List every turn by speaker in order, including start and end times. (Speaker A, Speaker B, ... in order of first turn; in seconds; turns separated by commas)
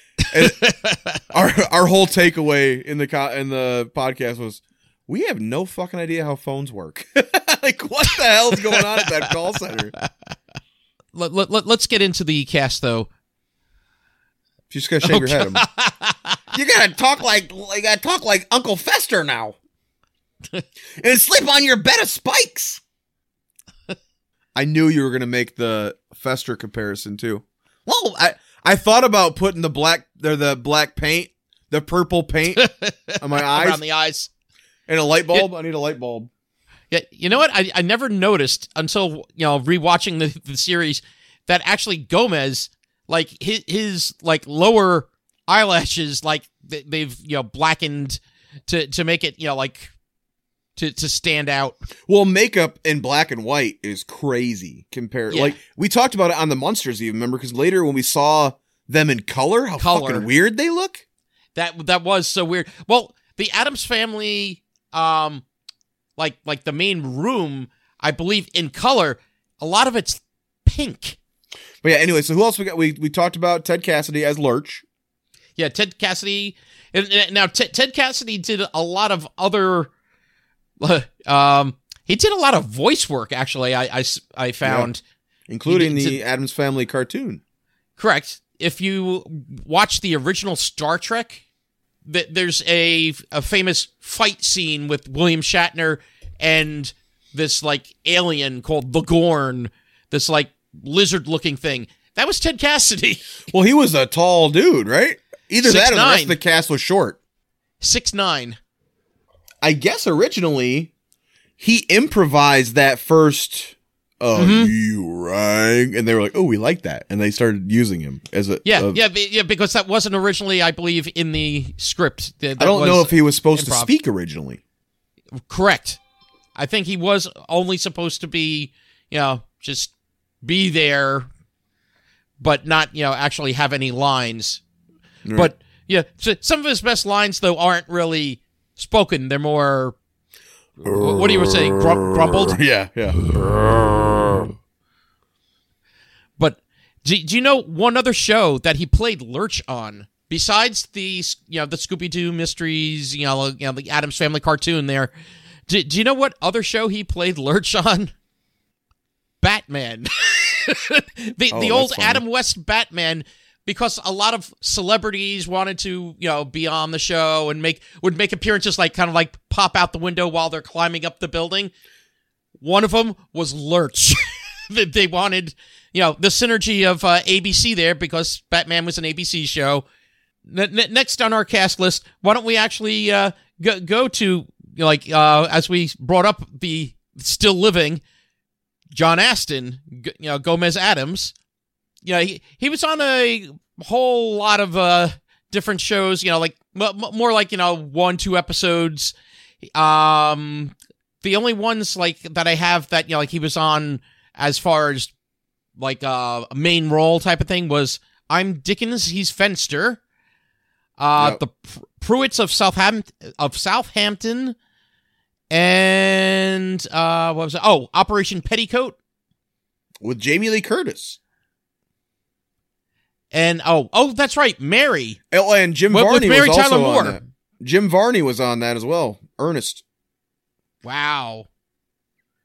Speaker A: 0.3-0.7, Speaker B: 0.4-1.1, Speaker A: 1.3-9.9, Speaker B: 8.7-9.0, Speaker B: 11.1-13.1, Speaker A: 14.7-15.6, Speaker B: 15.0-16.4, Speaker A: 16.5-19.6, Speaker A: 21.0-22.8, Speaker A: 24.5-33.8, Speaker B: 32.5-34.3, Speaker A: 34.9-36.3, Speaker B: 36.9-49.9, Speaker B: 50.8-51.8, Speaker A: 52.1-61.0, Speaker B: 55.3-55.6, Speaker B: 59.8-60.3, Speaker B: 61.5-65.4, Speaker B: 66.2-71.2, Speaker A: 71.8-74.8, Speaker B: 75.6-79.9, Speaker B: 80.8-85.0, Speaker A: 84.6-84.9, Speaker A: 85.5-87.4, Speaker B: 85.7-86.2, Speaker B: 88.0-91.4, Speaker B: 92.0-103.3, Speaker A: 103.5-107.2, Speaker B: 105.6-106.4, Speaker B: 107.8-108.6, Speaker A: 109.6-110.9, Speaker A: 111.6-119.0, Speaker B: 114.3-114.7, Speaker B: 118.6-123.9, Speaker A: 122.6-124.6, Speaker B: 125.5-126.0, Speaker B: 126.5-131.3, Speaker B: 132.4-134.6, Speaker A: 135.2-135.5, Speaker B: 135.3-139.9, Speaker B: 140.8-142.6, Speaker A: 142.5-143.2, Speaker B: 146.4-155.1, Speaker B: 155.7-158.1, Speaker B: 159.4-171.7, Speaker A: 161.5-162.2, Speaker B: 172.6-179.8, Speaker B: 180.4-188.0, Speaker B: 188.9-191.3, Speaker B: 192.0-199.1, Speaker B: 199.7-205.1, Speaker B: 205.8-210.0, Speaker B: 211.0-214.6, Speaker B: 215.5-218.9, Speaker A: 220.0-221.2, Speaker B: 223.3-225.2, Speaker A: 225.3-229.8, Speaker B: 225.9-227.2, Speaker B: 230.8-231.5